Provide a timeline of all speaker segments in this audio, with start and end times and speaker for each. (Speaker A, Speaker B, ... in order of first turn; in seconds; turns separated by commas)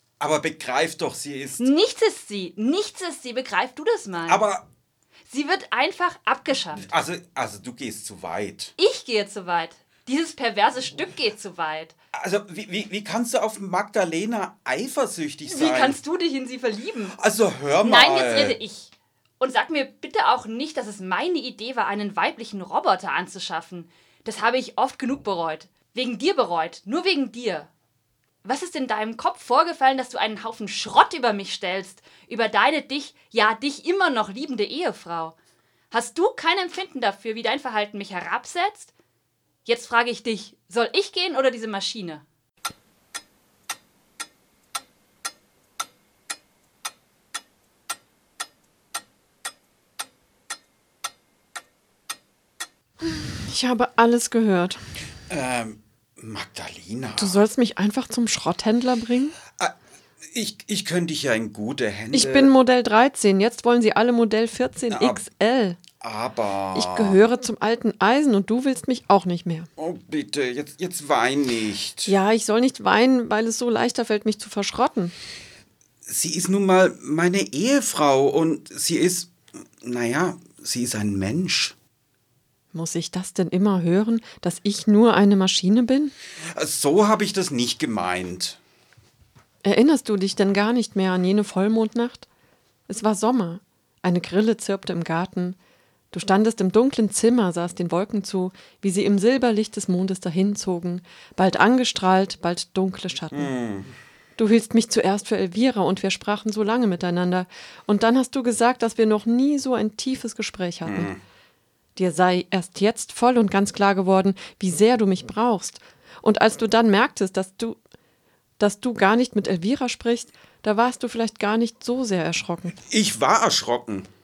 Speaker A: 0.2-1.7, Speaker B: 1.6-4.4, Speaker A: 4.3-4.6, Speaker B: 5.3-6.9, Speaker A: 6.7-8.7, Speaker B: 8.8-11.9, Speaker A: 12.1-16.0, Speaker B: 15.5-17.2, Speaker A: 17.1-18.6, Speaker B: 17.8-27.7, Speaker B: 28.4-35.3, Speaker B: 35.9-38.9, Speaker B: 39.6-42.2, Speaker C: 53.0-54.8, Speaker A: 55.3-57.4, Speaker C: 57.2-59.4, Speaker A: 60.3-62.5, Speaker C: 62.1-65.8, Speaker A: 64.9-65.2, Speaker A: 66.0-67.2, Speaker C: 66.7-69.7, Speaker A: 69.8-72.1, Speaker C: 72.0-75.1, Speaker A: 76.1-81.8, Speaker C: 82.7-86.1, Speaker A: 86.5-88.6, Speaker C: 89.6-92.2, Speaker C: 92.9-95.5, Speaker C: 96.1-103.5, Speaker A: 103.3-103.9, Speaker C: 104.4-111.1, Speaker A: 110.8-111.2, Speaker C: 112.0-117.8, Speaker C: 118.6-122.8, Speaker A: 122.8-124.1